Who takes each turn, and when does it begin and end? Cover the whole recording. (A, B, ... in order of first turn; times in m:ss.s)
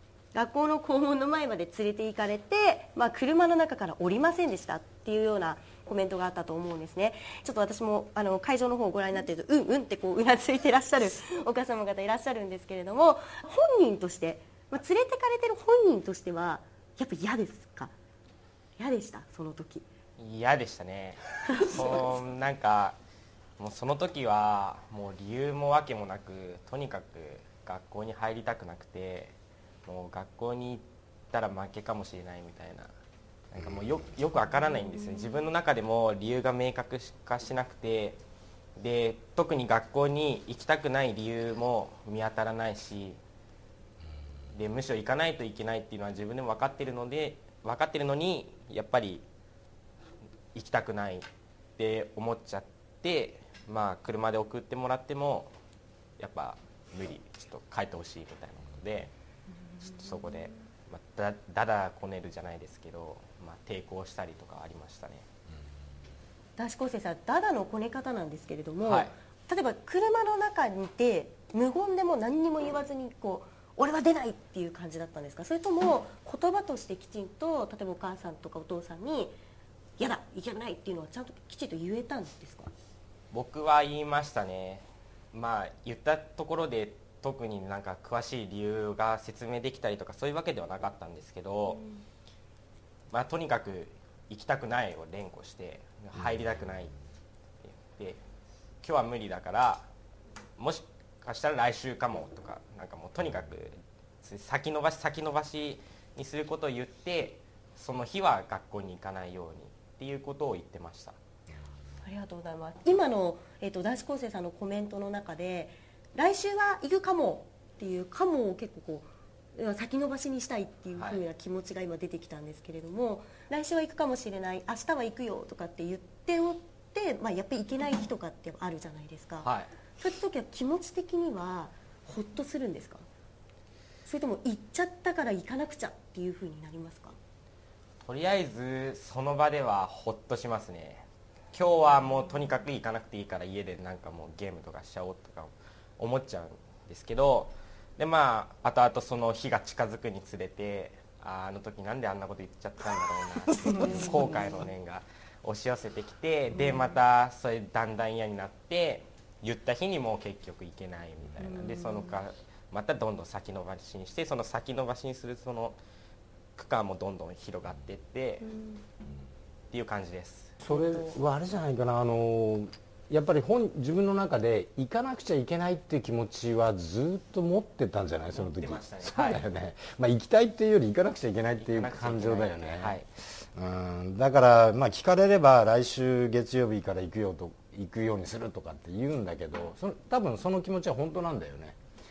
0:00.3-0:17.9 A
0:18.8-0:19.9 A
0:20.2-0:23.0 B
0:21.5-0:22.1 A
0:23.6-0:29.3 B
0:29.9-0:32.9 B
0:33.5-0:38.2 B
0:38.8-0:43.2 B
0:44.5-0:49.3 B
0:50.5-0:55.5 B
0:56.2-0:59.1 B
0:59.8-1:05.3 B
1:06.6-1:19.4 A
1:08.8-1:09.1 B
1:20.0-1:22.7 A
1:23.3-1:31.8 B
1:33.1-1:37.0 B
1:37.6-1:38.2 B
1:38.8-1:39.9 B
1:40.6-1:51.2 B
1:52.0-2:13.1 A
2:01.0-2:01.2 B
2:09.4-2:09.7 B
2:14.1-2:17.2 A
2:18.0-2:45.8 B
2:33.6-2:34.7 A
2:36.6-2:37.0 A
2:41.4-2:42.2 A
2:46.6-2:48.5 B
2:48.4-2:48.8 A
2:49.7-2:50.6 B
2:50.6-3:11.8 C
2:50.7-2:51.2 A
2:58.3-2:59.4 B
3:01.6-3:03.1 B